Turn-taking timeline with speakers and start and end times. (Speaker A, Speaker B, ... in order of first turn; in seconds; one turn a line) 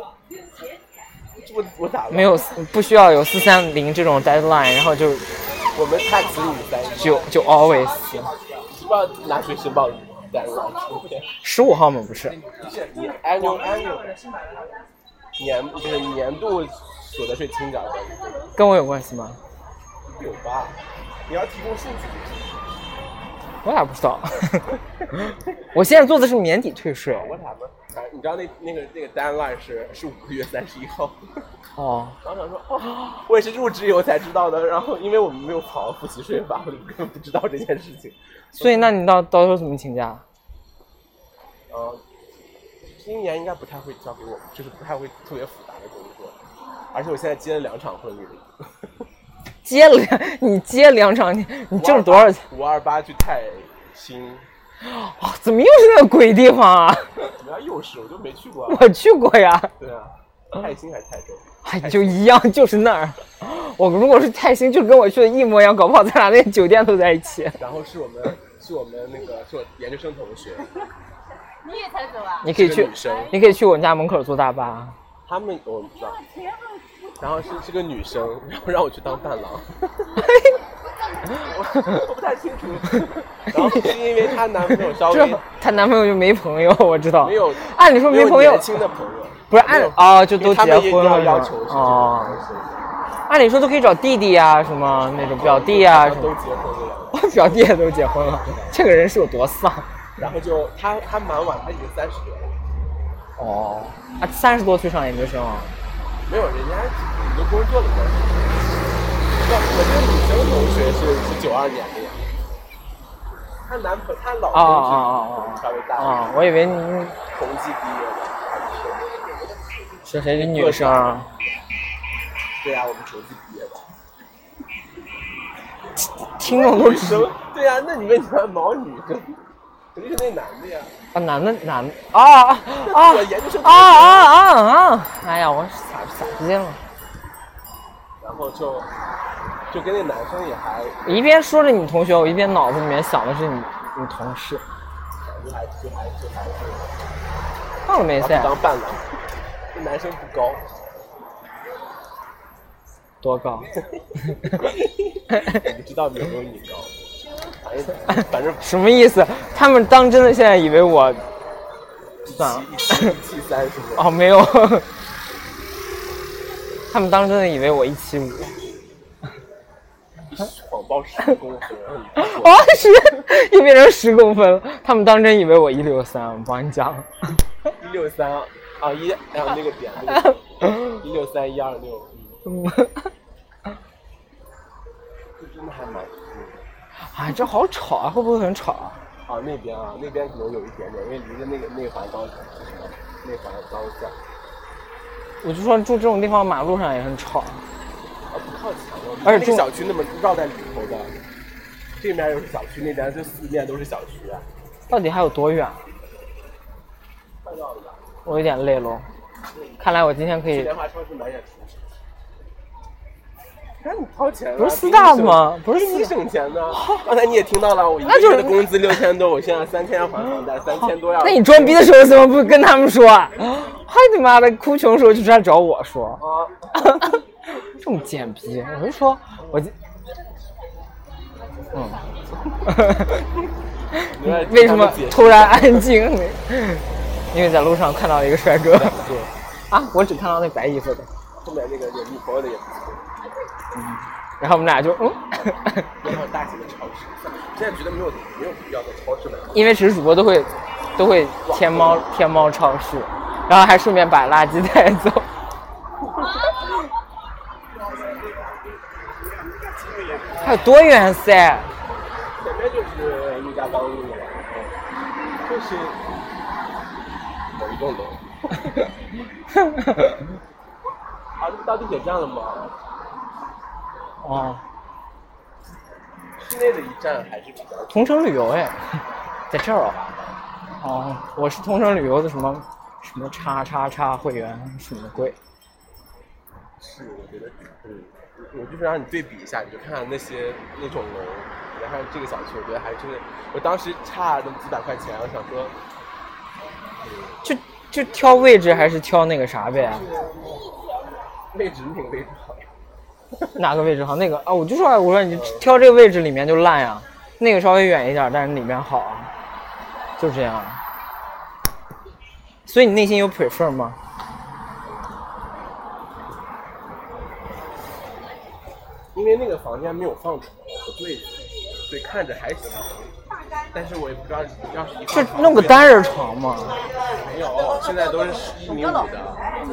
Speaker A: 1.4-2.5
Speaker B: 2.1-5.2
Speaker A: 5.7-7.4
Speaker B: 7.0-8.3
Speaker A: 8.7-11.3
Speaker B: 11.4-12.4
Speaker A: 12.5-14.2
Speaker A: 15.4-18.5
Speaker B: 18.5-19.4
Speaker A: 20.1-22.5
Speaker B: 23.6-27.3
Speaker A: 27.1-31.4
Speaker B: 31.8-32.2
Speaker A: 32.2-38.9
Speaker B: 38.5-40.2
Speaker A: 41.7-42.0
Speaker A: 42.9-46.4
Speaker A: 46.9-49.0
Speaker B: 49.6-52.4
Speaker A: 51.8-54.5
Speaker B: 54.8-57.3
Speaker A: 57.3-58.9
Speaker B: 58.7-59.7
Speaker A: 59.8-62.2
Speaker B: 61.6-67.6
Speaker A: 67.6-70.9
Speaker C: 71.6-73.3
Speaker B: 72.4-75.0
Speaker A: 72.5-73.4
Speaker A: 75.2-76.2
Speaker C: 76.3-76.8
Speaker A: 77.2-80.2
Speaker B: 80.2-80.6
Speaker A: 81.3-85.4
Speaker B: 83.5-84.0
Speaker B: 84.8-88.8
Speaker A: 87.2-92.8
Speaker B: 89.5-92.4
Speaker B: 93.3-96.3
Speaker A: 95.2-97.7
Speaker B: 97.1-99.9
Speaker A: 98.4-98.7
Speaker A: 100.2-102.5
Speaker B: 103.4-105.7
Speaker A: 106.2-108.6
Speaker A: 109.4-112.2
Speaker A: 113.6-116.4
Speaker B: 114.5-117.2
Speaker A: 117.3-119.4
Speaker B: 120.0-121.3
Speaker A: 120.3-121.2
Speaker A: 122.6-123.9
Speaker B: 126.2-127.3
Speaker A: 126.4-129.4
Speaker A: 129.9-130.9
Speaker B: 131.1-136.8
Speaker A: 132.7-134.3
Speaker A: 138.2-138.9
Speaker A: 139.7-141.2
Speaker B: 141.0-144.6
Speaker A: 145.2-146.9
Speaker B: 147.8-148.6
Speaker A: 148.2-149.2
Speaker A: 149.7-150.7
Speaker B: 153.2-153.7
Speaker A: 154.3-156.9
Speaker A: 157.6-158.8
Speaker B: 158.6-161.2
Speaker A: 162.2-164.1
Speaker B: 162.3-163.1
Speaker B: 163.9-164.9
Speaker B: 166.9-168.6
Speaker A: 170.3-173.2
Speaker B: 172.1-177.4
Speaker A: 177.8-182.4
Speaker B: 182.4-183.1
Speaker A: 185.4-186.6
Speaker B: 187.1-189.0
Speaker A: 189.2-194.2
Speaker B: 195.4-197.6
Speaker A: 198.3-201.1
Speaker B: 199.2-199.7
Speaker A: 202.0-204.4
Speaker B: 204.9-205.8
Speaker A: 207.4-208.0
Speaker B: 208.2-209.1
Speaker B: 209.8-210.7
Speaker A: 210.5-211.9
Speaker A: 213.8-221.8
Speaker B: 214.6-216.1
Speaker B: 216.7-217.0
Speaker B: 218.1-218.7
Speaker B: 221.2-226.2
Speaker A: 226.2-226.7
Speaker B: 226.7-229.7
Speaker A: 229.4-229.7
Speaker B: 231.7-232.0
Speaker B: 232.6-233.2
Speaker A: 233.0-233.2
Speaker B: 233.9-239.0
Speaker A: 234.1-235.9
Speaker A: 238.7-239.3
Speaker B: 239.7-241.1
Speaker A: 241.3-243.1
Speaker B: 243.7-245.9
Speaker A: 246.0-249.7
Speaker B: 249.5-255.3
Speaker A: 251.4-252.1
Speaker A: 259.5-260.4
Speaker B: 260.4-261.7
Speaker A: 262.4-264.7
Speaker A: 265.4-266.0
Speaker A: 267.5-268.8
Speaker B: 269.5-270.1
Speaker A: 271.4-272.7
Speaker B: 274.2-274.6
Speaker A: 276.4-278.3
Speaker B: 277.9-280.1
Speaker B: 280.8-285.4
Speaker A: 286.8-295.7
Speaker A: 297.0-297.4
Speaker B: 297.4-300.1
Speaker A: 301.5-302.7
Speaker B: 303.5-309.3
Speaker A: 305.3-305.7
Speaker B: 310.2-310.8
Speaker B: 312.6-314.0
Speaker A: 319.1-323.1
Speaker A: 323.7-326.1
Speaker B: 325.1-326.8
Speaker A: 327.1-329.5